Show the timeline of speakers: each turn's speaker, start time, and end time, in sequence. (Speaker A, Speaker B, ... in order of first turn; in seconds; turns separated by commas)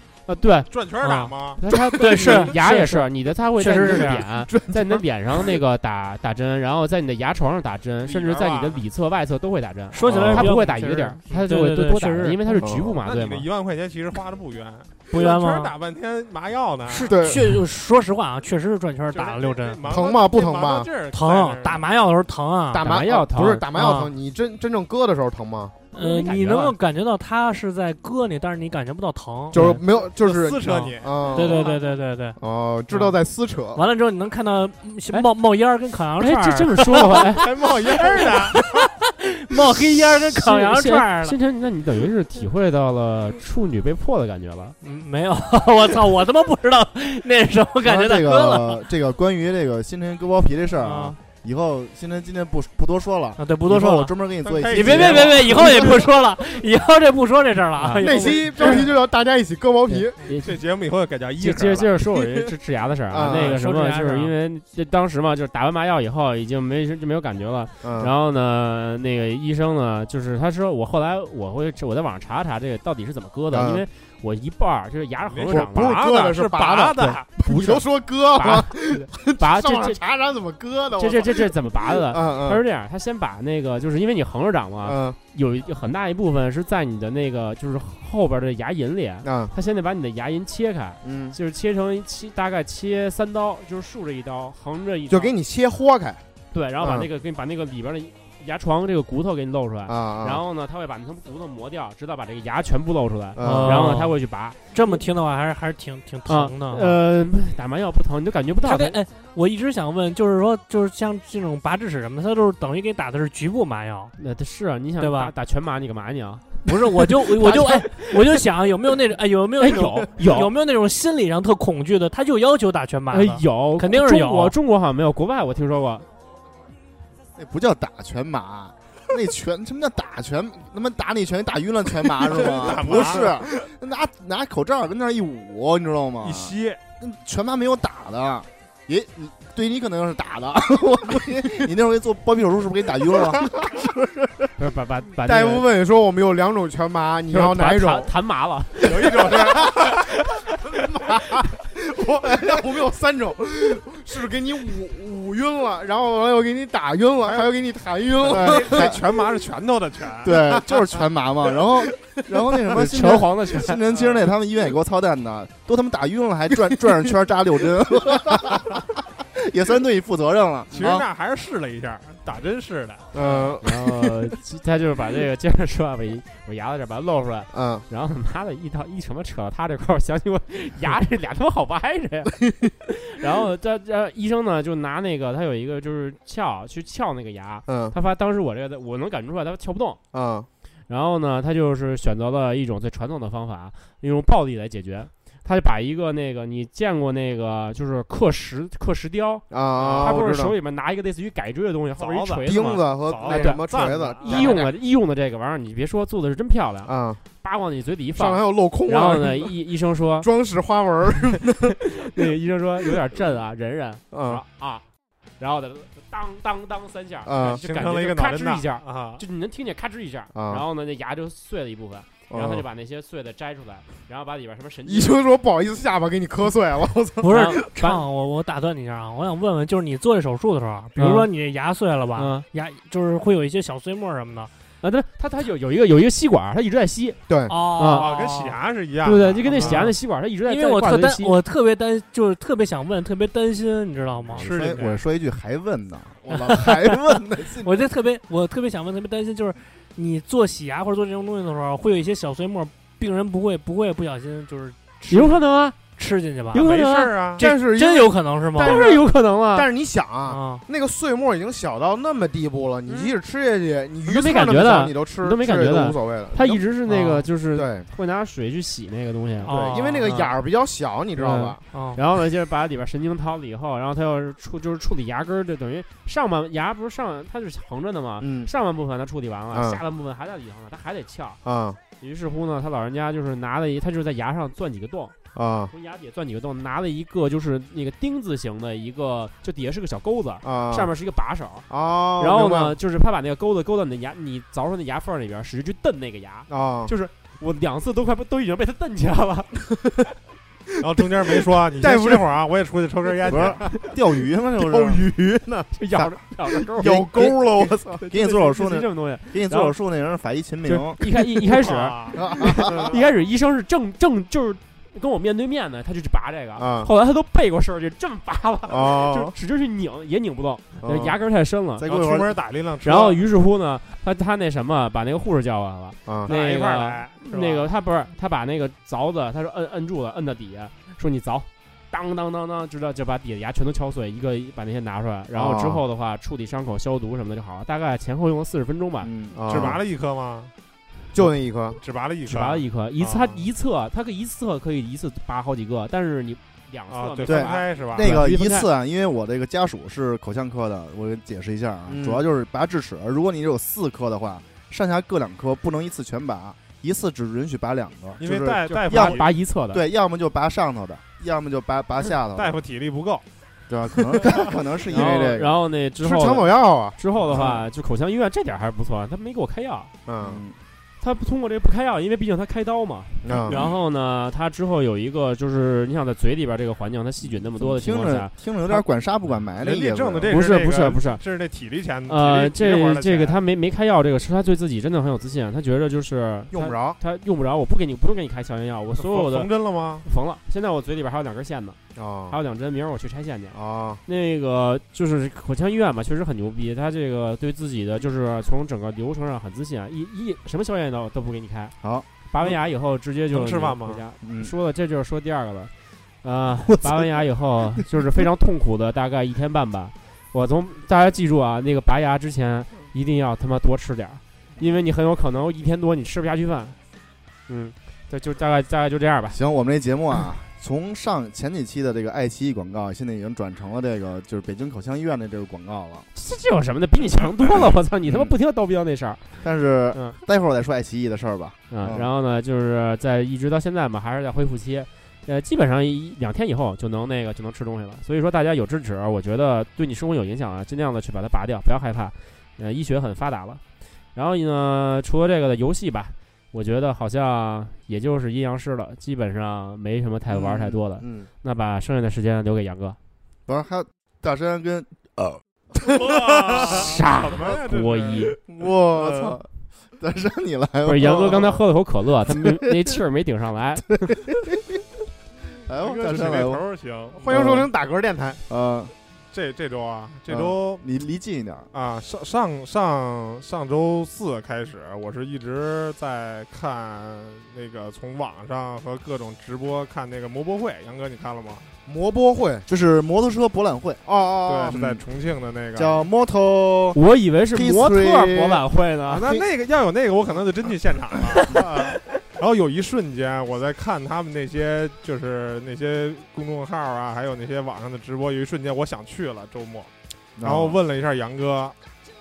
Speaker A: 0.3-0.8, Speaker B: 0.7-1.6, Speaker C: 1.0-1.4, Speaker A: 1.6-13.5, Speaker C: 1.9-4.3, Speaker D: 2.0-2.4, Speaker D: 3.7-5.6, Speaker B: 8.0-8.8, Speaker C: 9.9-12.7, Speaker D: 10.0-10.6, Speaker D: 12.6-13.0, Speaker B: 13.0-17.1, Speaker C: 15.1-15.7, Speaker C: 16.9-19.9, Speaker D: 16.9-17.5, Speaker B: 19.1-21.8, Speaker D: 19.9-20.9, Speaker C: 21.1-23.0, Speaker D: 22.7-25.8, Speaker A: 22.8-23.6, Speaker C: 23.7-24.1, Speaker C: 25.9-29.8, Speaker A: 25.9-26.7, Speaker D: 29.5-31.8, Speaker A: 29.5-29.8, Speaker B: 29.8-31.7, Speaker C: 31.3-32.4, Speaker D: 32.4-33.8, Speaker C: 33.7-41.4, Speaker A: 36.2-37.4, Speaker B: 37.2-38.6, Speaker A: 39.5-44.8, Speaker C: 44.8-48.9, Speaker E: 47.8-55.6, Speaker C: 50.8-51.2, Speaker C: 53.4-54.1, Speaker B: 54.4-56.1, Speaker C: 54.7-58.9, Speaker A: 57.8-58.9, Speaker D: 58.0-60.2, Speaker A: 59.9-60.6, Speaker B: 60.4-61.9, Speaker A: 61.4-76.0, Speaker D: 62.1-62.5, Speaker D: 63.1-63.6, Speaker C: 63.2-64.3, Speaker D: 67.8-68.1, Speaker D: 73.5-73.8, Speaker B: 75.3-77.6, Speaker D: 75.5-82.6, Speaker A: 77.0-77.8, Speaker A: 78.3-80.0, Speaker A: 81.0-95.3, Speaker D: 84.8-85.2, Speaker D: 89.2-89.5, Speaker D: 91.0-91.3, Speaker D: 95.1-96.2, Speaker A: 96.5-105.0, Speaker D: 96.8-97.1, Speaker D: 99.9-100.4, Speaker D: 103.3-103.9, Speaker C: 103.4-104.2, Speaker C: 104.7-107.0, Speaker A: 106.3-109.0, Speaker C: 108.6-114.1, Speaker A: 114.2-118.4, Speaker C: 115.0-115.3, Speaker C: 116.6-124.5, Speaker A: 119.6-120.5, Speaker A: 123.1-126.1, Speaker E: 127.3-144.5, Speaker B: 132.3-133.3, Speaker D: 132.7-133.4, Speaker B: 136.2-136.8, Speaker A: 144.6-145.7, Speaker D: 145.2-148.1, Speaker A: 147.3-149.6, Speaker B: 148.8-150.1, Speaker D: 148.8-150.0, Speaker D: 150.7-159.0, Speaker B: 158.2-160.4, Speaker E: 158.3-159.0, Speaker E: 160.2-171.0, Speaker D: 160.3-160.7, Speaker D: 161.8-162.7, Speaker A: 162.7-163.8, Speaker B: 163.9-164.3, Speaker B: 170.7-173.4, Speaker D: 173.1-174.1, Speaker A: 173.6-190.0, Speaker D: 177.5-177.8, Speaker D: 187.7-187.9, Speaker D: 190.1-190.5, Speaker A: 190.9-210.3, Speaker D: 199.5-200.5, Speaker B: 199.8-200.2, Speaker B: 202.0-202.5, Speaker D: 202.4-204.7, Speaker B: 203.0-204.6, Speaker D: 206.8-207.2, Speaker D: 208.2-209.5, Speaker D: 210.2-212.0, Speaker A: 211.9-214.8, Speaker D: 214.1-214.4, Speaker A: 215.4-225.2, Speaker D: 217.2-217.6, Speaker B: 217.4-219.2, Speaker D: 220.3-220.6, Speaker D: 222.3-222.6, Speaker D: 224.8-227.4, Speaker C: 227.2-234.5, Speaker A: 227.3-228.0, Speaker A: 230.9-231.3, Speaker A: 232.1-232.4, Speaker A: 234.8-238.2, Speaker D: 237.3-237.6, Speaker C: 237.5-238.6, Speaker B: 237.9-239.9, Speaker A: 239.0-241.4, Speaker C: 239.4-239.9, Speaker C: 240.4-244.5, Speaker E: 244.3-247.9, Speaker B: 244.4-245.0, Speaker C: 246.3-247.0, Speaker C: 247.6-256.6, Speaker A: 255.1-255.9, Speaker A: 256.5-257.4, Speaker B: 256.5-257.4, Speaker C: 257.4-258.9, Speaker D: 257.4-266.6, Speaker A: 258.6-259.7, Speaker C: 260.3-260.6, Speaker A: 262.9-263.1, Speaker A: 264.1-270.3, Speaker C: 266.9-267.2, Speaker D: 267.5-267.9, Speaker C: 269.4-270.2, Speaker D: 269.4-271.6, Speaker A: 271.1-281.4, Speaker C: 271.7-272.0, Speaker D: 278.2-278.5, Speaker D: 279.5-279.8, Speaker D: 281.4-281.8, Speaker A: 282.0-285.1, Speaker D: 285.3-285.7, Speaker A: 285.7-299.6, Speaker D: 290.4-290.9, Speaker D: 291.7-292.8, Speaker D: 296.5-296.9, Speaker B: 300.8-303.6, Speaker D: 301.7-302.3, Speaker E: 303.2-305.0, Speaker D: 303.3-303.9, Speaker D: 304.6-308.0, Speaker A: 305.7-309.7, Speaker E: 308.1-311.0, Speaker A: 310.6-322.0, Speaker B: 311.5-312.9, Speaker D: 312.2-312.9, Speaker D: 316.6-316.9, Speaker D: 318.7-319.3, Speaker D: 320.8-321.1, Speaker B: 321.8-323.2, Speaker E: 321.8-322.3, Speaker A: 322.8-339.1, Speaker D: 326.1-326.3, Speaker B: 326.2-327.7, Speaker D: 335.3-335.8, Speaker E: 339.0-339.8, Speaker D: 339.3-339.8, Speaker B: 339.4-340.5, Speaker D: 341.1-341.8, Speaker B: 341.8-343.4, Speaker A: 342.2-348.7, Speaker B: 346.9-348.1, Speaker E: 347.2-362.6, Speaker D: 351.9-352.2, Speaker B: 358.2-359.3, Speaker A: 358.6-359.8, Speaker B: 362.3-363.2, Speaker E: 363.7-365.5, Speaker D: 364.0-364.2, Speaker B: 364.2-364.5, Speaker A: 364.9-369.9, Speaker D: 364.9-365.3, Speaker D: 366.0-367.6, Speaker D: 370.1-370.4, Speaker E: 370.2-370.6, Speaker A: 371.0-378.8, Speaker D: 373.2-373.7, Speaker E: 377.2-380.4, Speaker B: 379.6-383.4, Speaker A: 380.3-381.2, Speaker A: 382.1-389.5, Speaker D: 386.5-387.0, Speaker B: 388.9-390.0, Speaker A: 390.0-391.8, Speaker D: 391.9-392.4, Speaker A: 392.3-401.7, Speaker D: 393.5-394.0, Speaker A: 402.3-416.8, Speaker B: 403.3-404.0, Speaker E: 404.2-404.5, Speaker E: 406.8-407.1, Speaker A: 417.5-419.4, Speaker E: 419.3-426.1, Speaker A: 426.1-429.4, Speaker E: 428.0-428.3, Speaker E: 429.4-432.1, Speaker A: 429.9-430.2, Speaker A: 431.7-443.6, Speaker A: 444.1-453.0, Speaker E: 450.3-450.8, Speaker D: 451.0-451.3, Speaker E: 453.5-456.8, Speaker B: 455.9-458.4, Speaker A: 456.6-458.4, Speaker E: 458.5-461.6, Speaker B: 459.0-459.3, Speaker A: 460.8-464.2, Speaker B: 461.0-461.6, Speaker E: 462.3-463.0, Speaker E: 464.1-464.8, Speaker E: 465.6-466.6, Speaker B: 465.8-467.2, Speaker D: 467.1-468.4, Speaker E: 467.3-467.7, Speaker E: 468.5-468.9, Speaker B: 469.3-470.8, Speaker E: 470.3-471.7, Speaker B: 471.7-481.7, Speaker D: 481.9-482.6, Speaker E: 482.7-484.0, Speaker D: 484.0-484.8, Speaker B: 484.5-486.0, Speaker E: 484.7-485.0, Speaker E: 485.8-487.0, Speaker A: 486.9-489.3, Speaker E: 487.5-488.6, Speaker B: 489.1-499.9, Speaker E: 500.4-500.8, Speaker B: 500.4-501.7